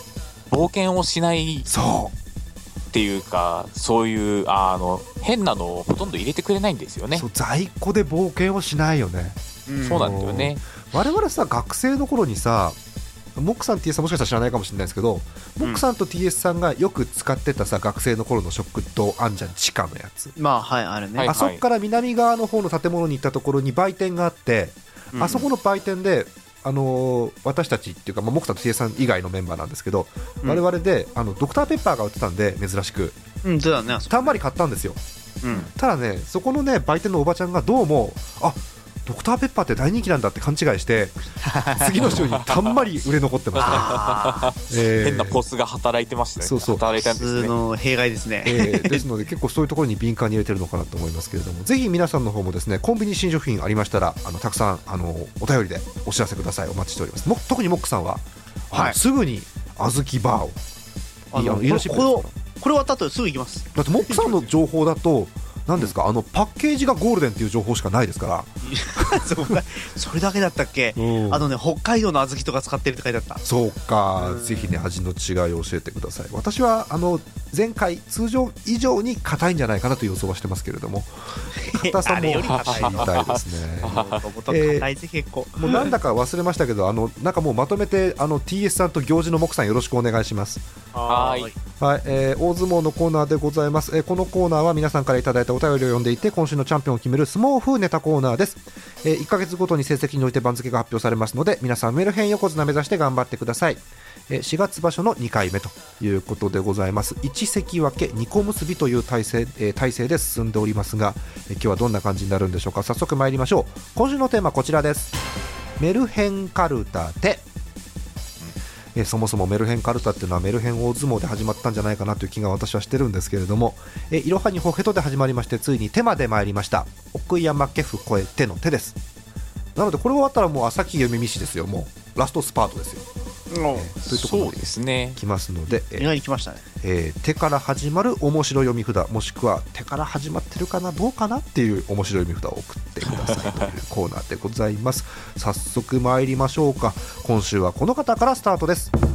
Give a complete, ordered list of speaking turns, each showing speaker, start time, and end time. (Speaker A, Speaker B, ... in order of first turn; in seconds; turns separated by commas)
Speaker A: 0.5-1.7, Speaker B: 1.7-2.1, Speaker A: 2.9-7.2, Speaker B: 7.1-9.4, Speaker C: 9.7-10.2, Speaker A: 9.8-10.6, Speaker B: 9.9-12.8, Speaker B: 13.4-20.4, Speaker C: 20.4-21.4, Speaker A: 21.2-21.6, Speaker B: 21.3-33.2, Speaker C: 25.1-25.5, Speaker C: 33.4-34.4, Speaker B: 34.1-35.0, Speaker C: 35.4-35.7, Speaker B: 35.7-41.2, Speaker C: 41.4-42.0, Speaker B: 41.7-44.0, Speaker C: 43.6-44.5, Speaker A: 43.6-47.5, Speaker B: 44.7-45.4, Speaker B: 46.4-46.8, Speaker C: 47.0-49.0, Speaker B: 48.5-60.6, Speaker C: 58.7-59.0, Speaker C: 61.3-64.5, Speaker B: 61.4-62.3, Speaker B: 63.8-69.3, Speaker C: 68.6-73.4, Speaker B: 71.0-71.5, Speaker B: 73.5-84.9, Speaker C: 74.2-74.8, Speaker C: 81.5-83.1, Speaker A: 82.5-84.2, Speaker C: 83.8-85.9, Speaker B: 85.6-90.6, Speaker C: 90.9-91.6, Speaker A: 91.1-91.5, Speaker B: 91.8-115.1, Speaker B: 115.8-117.5, Speaker B: 119.0-129.0, Speaker B: 129.8-133.0, Speaker C: 133.5-133.9, Speaker B: 133.7-136.1, Speaker A: 134.0-135.2, Speaker C: 135.9-136.6, Speaker B: 136.8-148.9